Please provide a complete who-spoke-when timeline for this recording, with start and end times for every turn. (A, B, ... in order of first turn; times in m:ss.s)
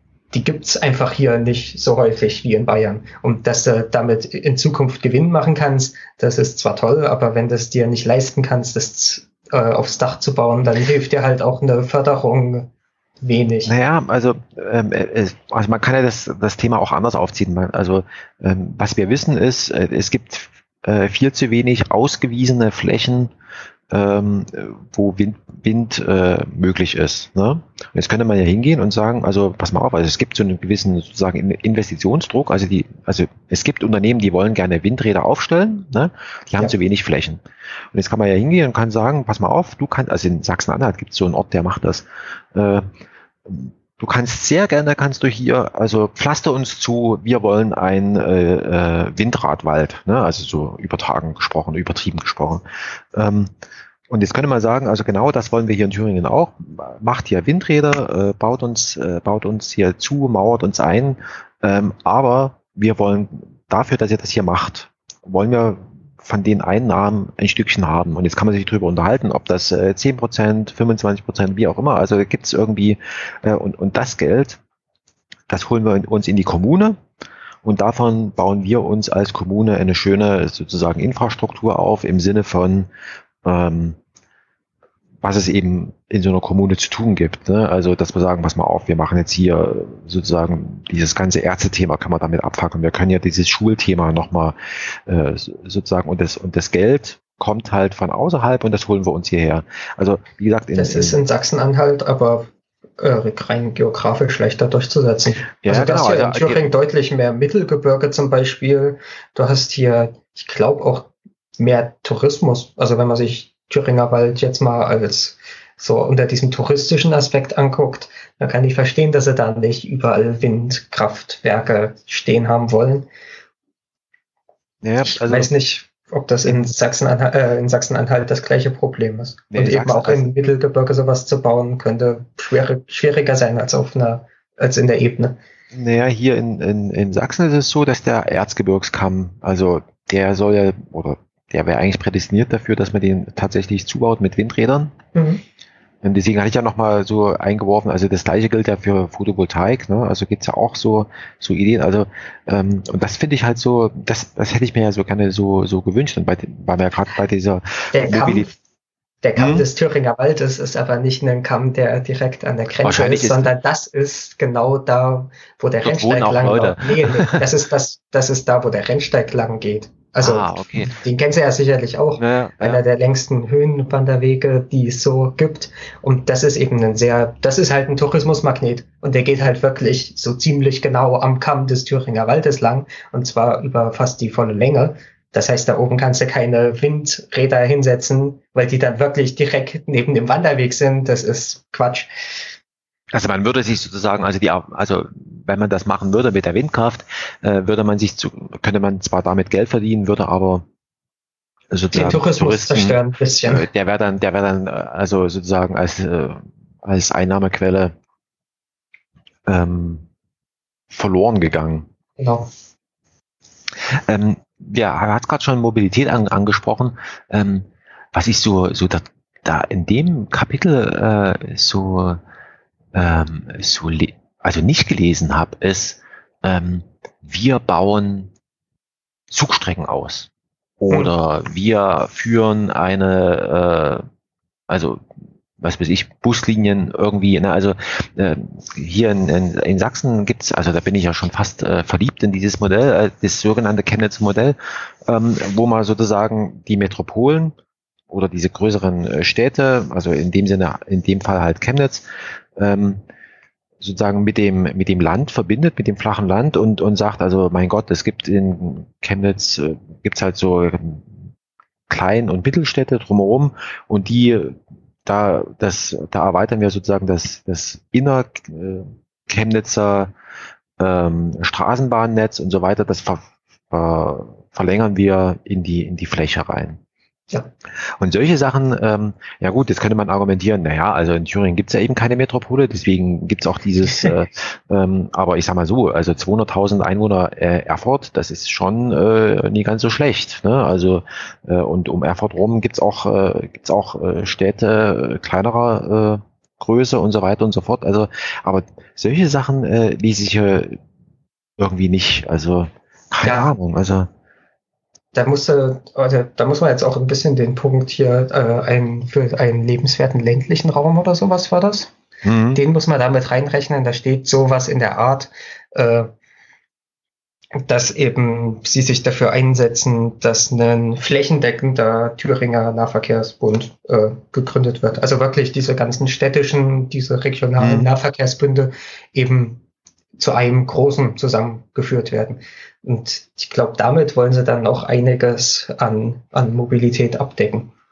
0:00.3-0:12.7 A
0:13.2-0:13.7 A
0:13.6-0:23.3 B
0:23.9-0:42.9 B
0:43.5-0:53.5 B
0:54.1-1:14.6 B
1:15.5-1:17.0 B
1:17.6-1:22.9 B
1:23.4-1:24.0 B
1:25.2-1:41.2 B
1:40.7-2:03.1 A
1:45.6-1:46.6 B
2:04.8-2:05.5 B
2:05.0-2:15.4 A
2:09.5-2:10.2 B
2:15.7-2:25.0 B
2:25.2-2:25.4 A
2:26.0-2:38.5 B
2:37.9-2:38.6 A
2:39.2-3:12.1 A
2:39.4-2:39.7 B
2:42.8-2:43.5 B
2:45.8-2:47.4 B
2:50.2-2:51.0 B
2:52.2-2:52.8 B
3:13.1-3:20.6 B
3:21.7-3:28.0 B
3:21.9-3:23.7 A
3:29.5-3:30.0 B
3:30.9-3:31.9 B
3:32.2-3:32.5 A
3:33.9-3:42.2 B
3:42.9-3:48.3 B
3:49.3-3:54.1 B
3:54.7-3:55.0 B
3:55.6-4:07.6 B
4:08.1-4:12.0 B
4:12.6-4:13.0 B
4:13.8-4:21.2 B
4:21.9-4:30.1 B
4:30.8-4:36.8 B
4:38.0-5:00.8 B
5:01.6-5:04.1 B
5:03.2-5:03.5 A
5:05.1-5:11.9 A
5:12.2-5:12.6 B
5:12.6-5:16.1 A
5:17.6-5:29.6 A
5:27.6-5:27.9 B
5:30.2-5:37.7 A